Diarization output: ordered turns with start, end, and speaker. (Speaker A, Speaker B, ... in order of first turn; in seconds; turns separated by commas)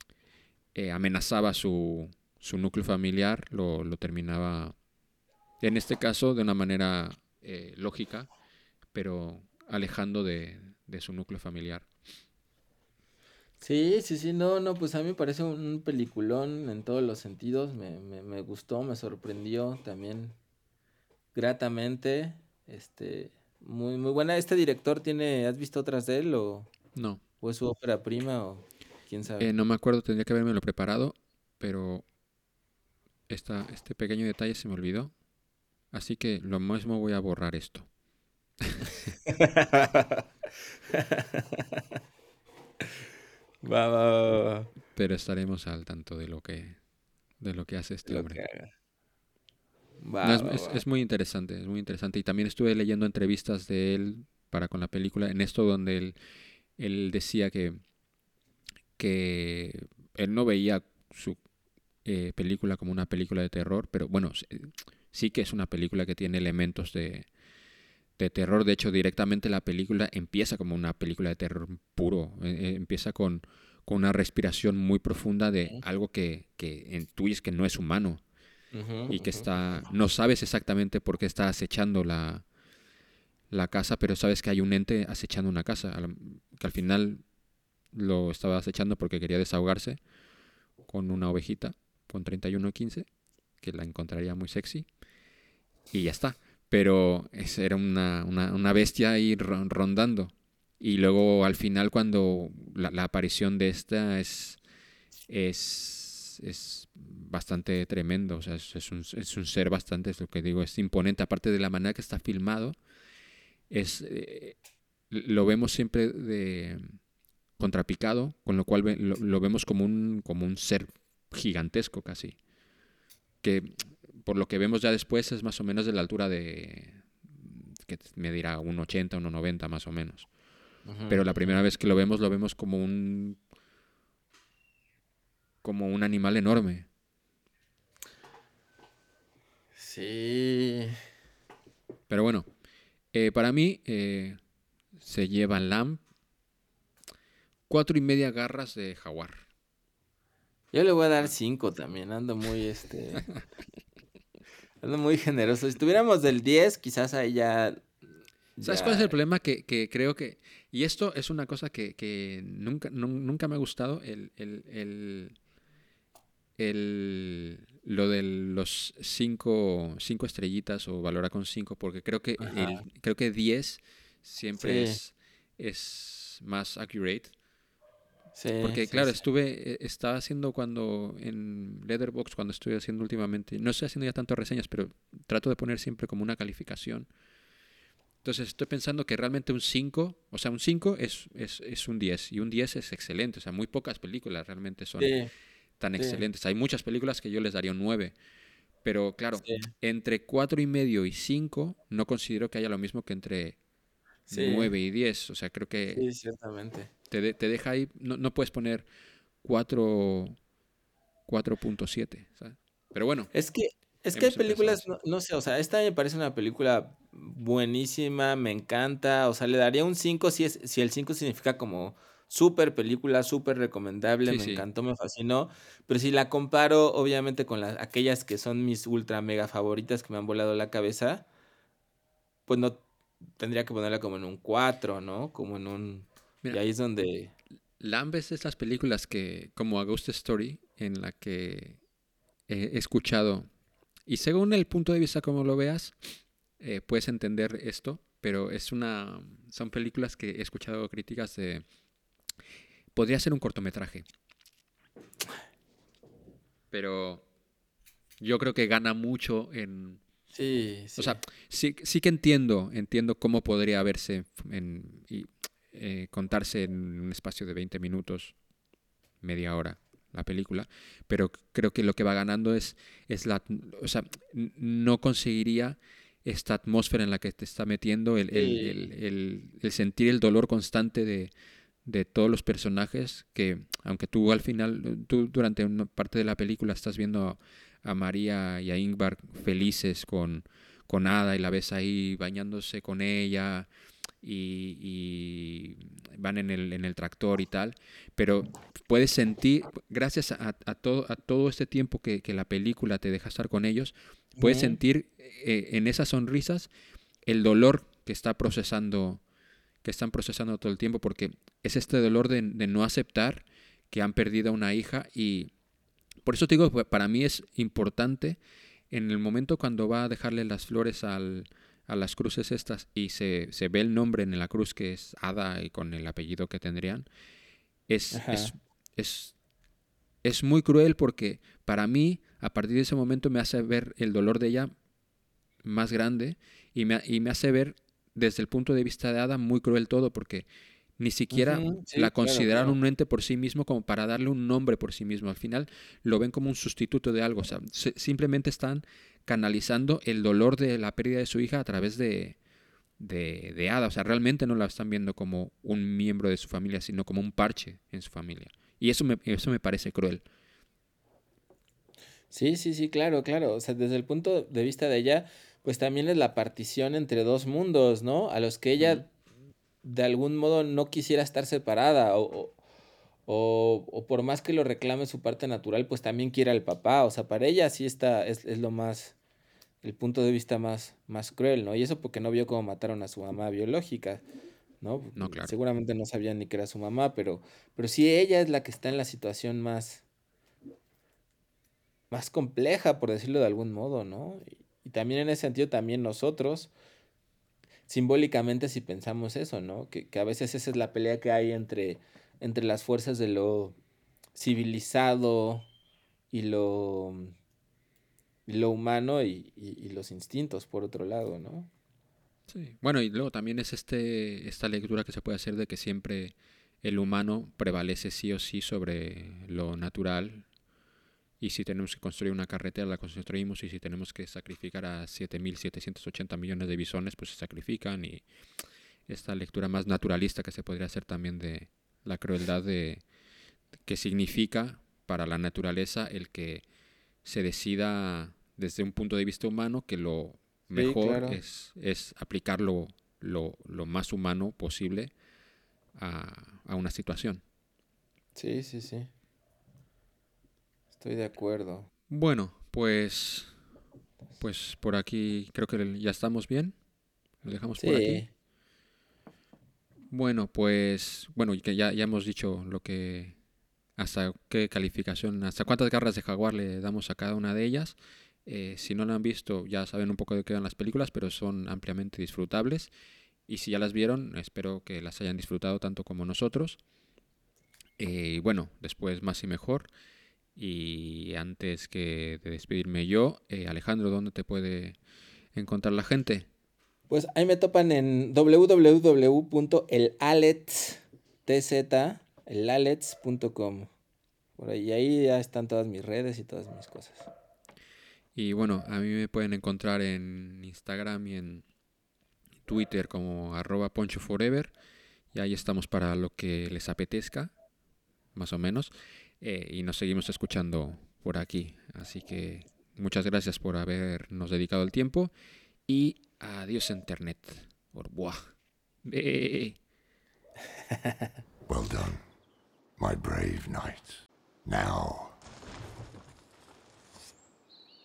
Speaker A: 0.7-4.7, Speaker A: 5.6-8.3, Speaker A: 8.9-11.8, Speaker B: 13.6-20.4, Speaker B: 21.3-26.7, Speaker A: 26.9-27.2, Speaker B: 27.4-29.5, Speaker A: 29.4-32.0, Speaker A: 33.3-35.1, Speaker A: 35.9-37.9, Speaker A: 38.6-38.9, Speaker B: 39.3-40.2, Speaker B: 40.9-41.8, Speaker B: 43.6-44.7, Speaker A: 44.9-46.8, Speaker A: 47.4-48.4, Speaker B: 48.0-48.7, Speaker B: 50.0-50.8, Speaker A: 50.2-56.1, Speaker A: 56.8-57.8, Speaker A: 59.0-61.4, Speaker A: 62.0-67.3, Speaker A: 68.2-78.2, Speaker B: 78.7-79.5, Speaker A: 79.1-82.4, Speaker A: 83.5-87.2, Speaker A: 87.9-90.0, Speaker A: 90.9-93.0, Speaker A: 93.6-94.8, Speaker A: 95.9-104.6, Speaker A: 105.3-112.8, Speaker A: 113.7-114.5, Speaker A: 115.1-117.0, Speaker A: 117.6-122.4, Speaker A: 123.4-130.3, Speaker B: 130.8-131.6, Speaker A: 131.1-133.4, Speaker A: 135.6-136.8, Speaker B: 139.8-141.0, Speaker A: 142.1-142.5, Speaker A: 143.1-144.4, Speaker A: 145.0-146.0, Speaker A: 147.7-149.4, Speaker B: 150.7-153.3, Speaker B: 154.8-157.8, Speaker B: 158.6-159.1, Speaker A: 158.6-165.3, Speaker A: 166.6-177.3, Speaker B: 172.4-172.8, Speaker B: 174.6-175.0, Speaker B: 178.3-179.2, Speaker A: 178.6-187.1, Speaker A: 188.2-195.2, Speaker B: 195.0-195.3, Speaker A: 195.8-198.1, Speaker B: 196.0-196.2, Speaker A: 198.8-203.6, Speaker B: 199.4-199.7, Speaker A: 204.3-206.0, Speaker B: 204.3-204.7, Speaker B: 205.9-206.9, Speaker A: 207.1-208.9, Speaker A: 209.4-210.3, Speaker A: 211.3-213.3, Speaker B: 213.3-231.2, Speaker A: 214.1-214.8, Speaker A: 224.2-224.6, Speaker B: 232.5-232.8, Speaker B: 233.4-237.3, Speaker A: 237.8-241.8, Speaker A: 242.5-243.5, Speaker A: 244.1-245.9, Speaker A: 246.6-251.6, Speaker A: 252.9-254.1, Speaker A: 256.7-257.2, Speaker A: 258.2-260.0, Speaker B: 260.3-261.2, Speaker A: 261.0-268.3, Speaker A: 269.2-281.3, Speaker B: 278.3-278.7, Speaker A: 281.8-293.7, Speaker A: 294.2-306.7, Speaker B: 304.4-304.8, Speaker A: 307.2-309.2, Speaker A: 309.8-315.5, Speaker A: 316.2-318.4, Speaker A: 318.9-327.1, Speaker A: 327.9-329.3, Speaker B: 328.1-328.5, Speaker A: 330.2-334.7, Speaker A: 335.6-340.4, Speaker A: 341.0-352.4, Speaker B: 341.3-342.8, Speaker A: 353.0-360.2, Speaker B: 362.3-369.1, Speaker B: 369.8-372.6, Speaker B: 373.3-379.1, Speaker B: 379.8-384.2, Speaker B: 384.8-390.0, Speaker A: 385.2-385.5, Speaker B: 392.1-396.7, Speaker B: 397.9-403.8, Speaker B: 404.4-405.7, Speaker B: 406.3-407.3, Speaker B: 408.5-411.7, Speaker A: 412.5-420.4, Speaker A: 421.4-428.2, Speaker A: 429.1-433.0, Speaker A: 433.9-436.6, Speaker A: 437.2-445.1, Speaker B: 440.7-441.4, Speaker A: 445.9-447.4, Speaker B: 448.3-449.1, Speaker B: 451.0-451.9, Speaker A: 452.1-453.5, Speaker A: 454.4-456.7, Speaker A: 457.4-458.2, Speaker B: 457.8-458.3, Speaker A: 460.1-463.3, Speaker A: 464.0-472.9, Speaker A: 473.5-476.8, Speaker A: 478.0-479.9, Speaker A: 480.6-485.0, Speaker A: 485.5-486.5, Speaker B: 487.1-493.9, Speaker B: 494.6-497.3, Speaker A: 498.3-501.6, Speaker A: 502.7-504.7, Speaker A: 505.3-507.5, Speaker A: 508.3-515.3, Speaker A: 515.9-518.5, Speaker A: 519.0-519.8, Speaker C: 521.7-522.2, Speaker C: 523.0-525.4